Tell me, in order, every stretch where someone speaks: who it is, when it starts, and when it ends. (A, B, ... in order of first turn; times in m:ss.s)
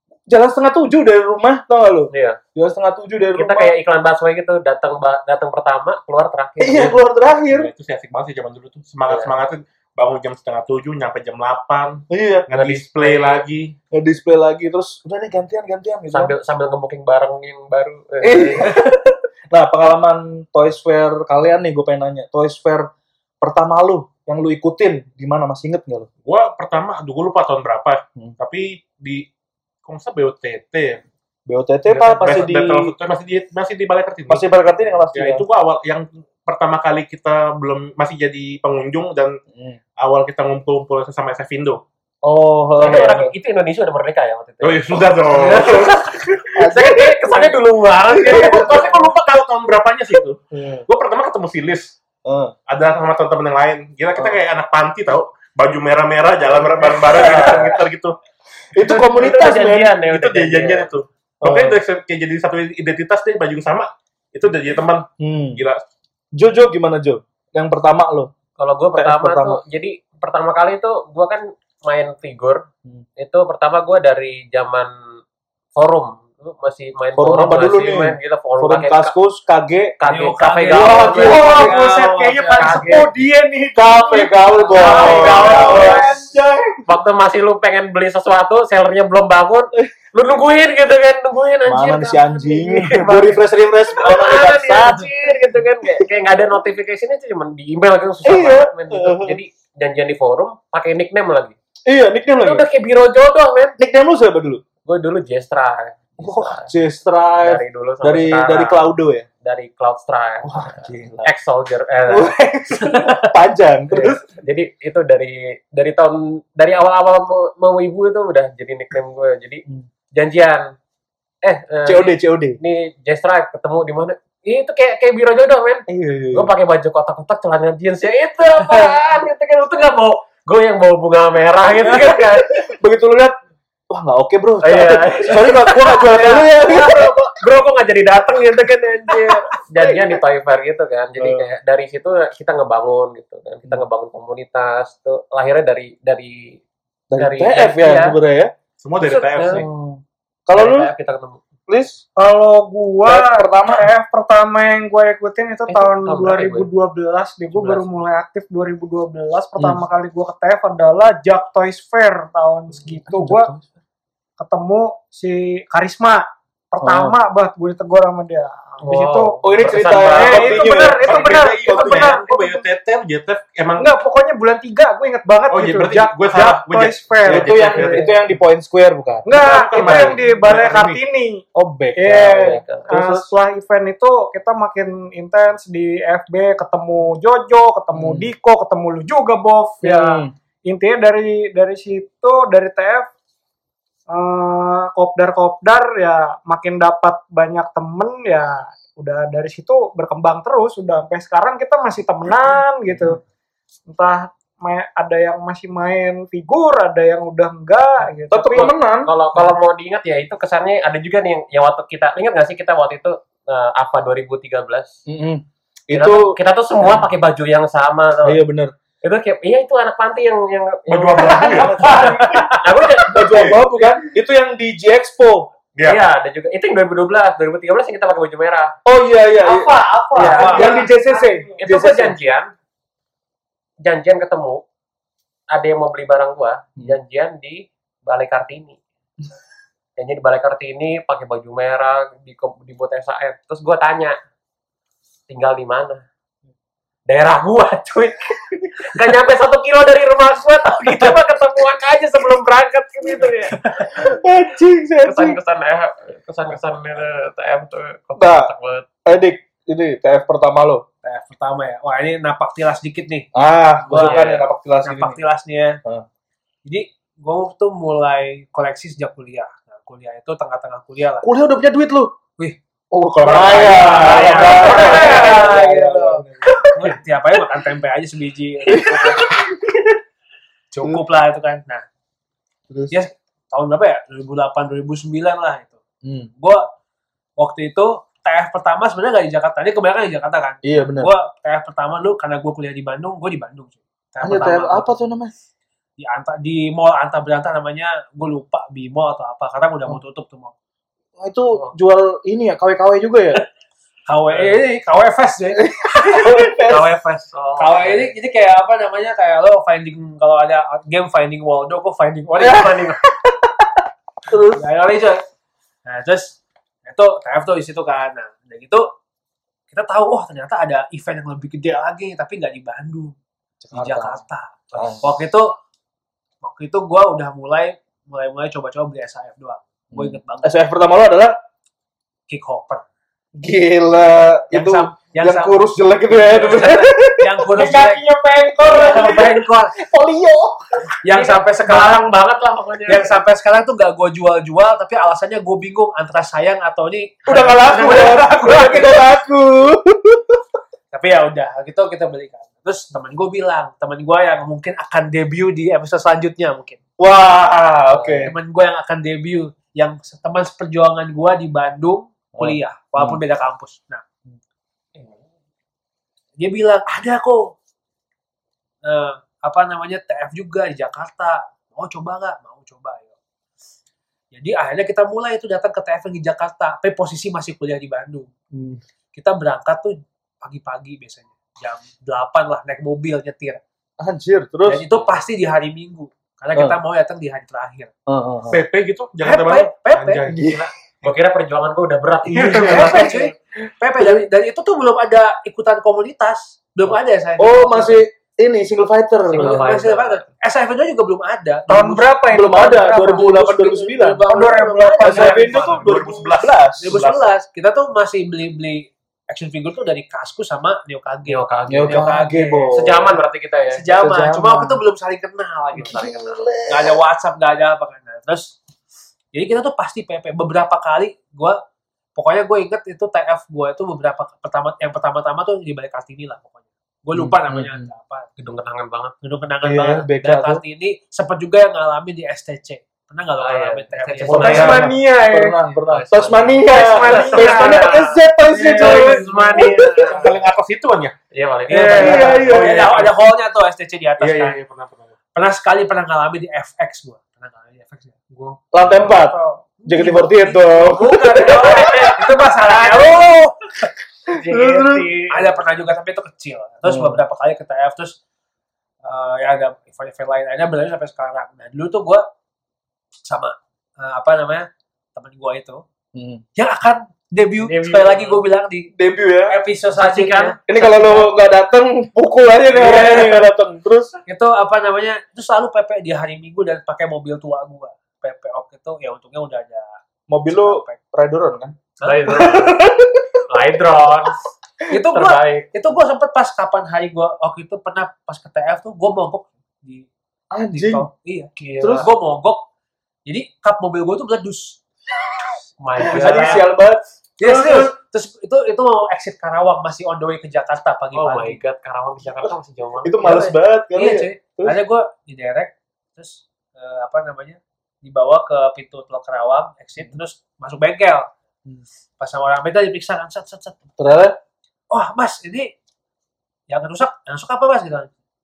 0:00.3-0:03.7 A
0:02.1-0:02.4 B
0:03.4-0:07.0 B
0:06.6-0:07.7 A
0:07.5-0:13.8 C
0:09.1-0:09.3 B
0:12.1-0:12.5 A
0:12.5-0:13.4 B
0:13.9-0:16.3 A
0:16.1-0:18.7 B
0:18.2-0:22.9 A
0:23.4-0:26.1 A
0:26.2-0:29.3 C
0:29.8-0:31.0 C
0:31.5-0:32.9 A
0:31.9-0:34.5 C
0:32.2-0:32.5 B
0:34.3-0:35.4 A
0:35.1-0:39.4 C
0:39.5-0:39.8 A
0:40.0-0:41.8 C
0:42.2-0:43.3 A
0:42.8-0:49.0 B
0:44.6-0:46.0 C
0:45.4-0:45.8 A
0:46.5-0:47.6 A
0:48.1-0:48.9 A
0:48.2-0:51.9 C
0:50.5-0:50.8 A
0:52.2-0:52.5 A
0:52.7-0:58.2 C
0:56.5-0:57.8 A
0:58.7-0:59.9 A
0:58.8-1:00.9 B
1:00.0-1:05.8 C
1:01.4-1:01.8 A
1:05.2-1:05.6 A
1:06.3-1:08.3 A
1:08.6-1:12.6 B
1:09.0-1:09.6 A
1:13.2-1:14.9 B
1:15.7-1:19.1 B
1:17.2-1:20.0 A
1:20.0-1:21.8 B
1:20.0-1:22.8 D
1:20.6-1:22.1 A
1:21.1-1:26.3 E
1:22.5-1:23.1 B
1:23.7-1:26.8 A
1:24.7-1:26.1 B
1:26.8-1:33.4 B
1:31.7-1:35.1 A
1:33.9-1:41.5 B
1:38.2-1:39.4 A
1:41.8-1:42.7 A
1:42.4-1:43.8 B
1:43.8-1:44.6 A
1:44.8-1:46.7 B
1:46.2-1:49.3 A
1:47.4-1:48.9 B
1:49.4-1:52.3 B
1:50.4-1:51.3 A
1:52.1-1:54.2 A
1:53.9-2:00.7 B
2:01.4-2:12.6 B
2:01.8-2:02.6 A
2:05.9-2:06.5 A
2:11.8-2:13.3 A
2:13.9-2:17.3 A
2:14.6-2:26.6 B
2:21.2-2:21.5 A
2:27.1-2:28.5 A
2:27.2-2:28.2 B
2:28.8-2:29.7 C
2:29.0-2:29.6 B
2:29.5-2:30.9 A
2:30.5-2:31.4 B
2:31.7-2:32.0 A
2:32.2-2:43.5 E
2:33.0-2:33.9 A
2:35.7-2:36.7 B
2:37.5-2:37.8 B
2:42.7-2:43.7 A
2:44.4-2:49.4 E
2:46.8-2:47.2 A
2:48.8-2:50.6 B
2:49.4-2:52.1 A
2:50.1-2:52.6 E
2:50.3-2:53.9 C
2:53.8-2:58.1 E
2:55.5-2:58.0 C
2:57.2-3:00.2 A
2:59.2-3:01.4 E
2:59.3-3:01.0 C
3:01.5-3:03.3 A
3:02.0-3:13.1 E
3:02.2-3:02.9 B
3:07.9-3:08.3 A
3:09.8-3:10.3 A
3:14.1-3:23.2 E
3:22.9-3:23.2 A
3:23.9-3:28.7 E
3:28.3-3:29.1 A
3:28.5-3:35.0 B
3:35.1-3:37.0 A
3:35.9-3:38.4 B
3:38.2-3:38.7 A
3:39.0-3:43.8 B
3:40.9-3:42.6 C
3:41.2-3:42.4 A
3:43.1-3:45.5 A
3:45.7-3:46.0 C
3:45.8-3:48.7 B
3:48.8-3:49.7 A
3:49.4-3:51.6 E
3:50.1-3:50.8 B
3:50.2-3:50.8 D
3:50.3-3:52.1 A
3:51.6-3:52.5 B
3:53.8-3:54.6 B
3:55.5-3:58.8 B
4:00.0-4:04.2 B
4:05.3-4:06.0 B
4:07.1-4:13.6 B
4:13.9-4:15.4 A
4:15.0-4:18.9 B
4:18.2-4:18.5 A
4:19.0-4:20.8 A
4:21.0-4:23.3 D
4:23.3-4:25.2 A
4:23.8-4:25.8 D
4:23.9-4:24.2 B
4:26.6-4:31.3 D
4:31.2-4:32.2 A
4:32.9-4:36.9 A
4:33.2-4:39.4 D
4:33.3-4:34.7 C
4:33.9-4:35.4 B
4:35.1-4:35.6 E
4:38.7-4:39.8 A
4:40.7-4:41.8 D
4:42.7-4:42.9 A
4:42.9-4:45.8 D
4:46.0-4:46.3 A
4:47.4-4:55.0 D
4:50.6-4:51.1 A
4:54.2-4:55.3 A
4:56.0-5:00.5 D
5:01.2-5:03.4 A
5:04.1-5:07.0 D
5:05.6-5:07.0 A
5:06.7-5:08.1 B
5:07.6-5:13.0 D
5:12.4-5:14.6 A
5:14.5-5:15.2 D
5:15.8-5:18.9 D
5:19.7-5:23.1 D
5:23.6-5:24.2 A
5:23.7-5:25.6 D
5:24.7-5:25.2 A
5:26.4-5:30.6 D
5:29.9-5:31.4 A
5:32.3-5:32.8 D
5:33.4-5:37.7 A
5:34.5-5:38.0 D
5:37.5-5:39.4 E
5:38.6-5:39.7 D
5:38.7-5:40.6 A
5:41.0-5:42.0 D
5:41.1-5:43.2 B
5:42.8-5:49.1 D
5:47.2-5:50.4 A
5:50.9-5:56.8 D
5:57.0-5:58.3 A
5:57.9-5:58.2 B
5:58.2-6:04.0 D
6:02.4-6:03.2 A
6:06.4-6:07.5 D
6:08.8-6:13.1 D
6:14.3-6:18.3 D
6:18.5-6:18.8 A
6:19.1-6:23.6 D
6:24.0-6:24.8 A
6:24.6-6:27.9 D
6:28.1-6:28.6 A
6:28.5-6:31.2 C
6:29.2-6:30.2 D
6:30.3-6:30.7 A
6:31.0-6:33.2 B
6:32.3-6:33.2 E
6:32.3-6:34.2 A
6:32.5-6:38.0 D
6:37.4-6:39.7 A
6:39.3-6:42.2 D
6:39.3-6:40.3 B
6:41.7-6:43.3 E
6:42.3-6:47.0 A
6:43.0-6:45.9 D
6:44.2-6:45.4 E
6:45.2-6:47.3 C
6:46.8-6:52.9 D
6:51.3-6:52.0 B
6:51.7-6:53.1 A
6:52.7-6:53.9 B
6:53.7-6:58.6 D
6:54.0-6:54.8 A
6:55.7-6:57.0 A
6:55.8-6:56.4 B
6:59.3-7:01.6 D
7:02.2-7:08.3 D
7:07.1-7:07.9 A
7:08.4-7:09.1 B
7:09.2-7:14.8 D
7:09.6-7:10.6 A
7:13.4-7:14.9 B
7:14.2-7:14.9 C
7:14.3-7:15.6 E
7:14.4-7:14.7 A
7:15.3-7:20.1 A
7:15.9-7:20.3 B
7:16.7-7:17.9 E
7:18.5-7:19.7 E
7:20.0-7:21.1 C
7:21.3-7:22.5 B
7:21.7-7:24.6 D
7:21.7-7:22.4 E
7:22.0-7:22.9 A
7:22.4-7:23.2 C
7:24.2-7:25.2 C
7:25.3-7:28.2 D
7:28.3-7:28.6 C
7:28.7-7:32.1 A
7:29.0-7:29.6 E
7:29.8-7:33.6 D
7:30.8-7:33.1 B
7:34.3-7:35.1 A
7:34.3-7:35.6 B
7:35.3-7:38.2 D
7:36.8-7:37.2 A
7:39.0-7:42.3 D
7:43.2-7:45.8 D
7:46.1-7:46.4 A
7:46.6-7:48.9 D
7:47.6-7:48.4 B
7:49.0-7:49.6 A
7:49.4-7:51.4 D
7:49.9-7:50.6 B
7:50.7-7:54.1 A
7:52.7-7:53.4 D
7:54.2-8:01.0 D
8:00.3-8:03.2 A
8:02.0-8:02.3 D
8:02.0-8:02.8 B
8:03.5-8:05.7 B
8:04.9-8:10.1 D
8:10.5-8:11.1 A
8:10.7-8:12.6 D
8:11.6-8:12.1 B
8:11.8-8:12.1 A
8:13.2-8:14.8 D
8:15.8-8:16.6 B
8:16.0-8:16.7 D
8:16.0-8:17.9 A
8:17.4-8:21.6 D
8:21.1-8:23.2 B
8:23.0-8:24.8 A
8:23.2-8:31.3 D
8:32.2-8:33.8 D
8:34.0-8:34.4 A
8:34.9-8:35.7 D
8:36.7-8:38.1 D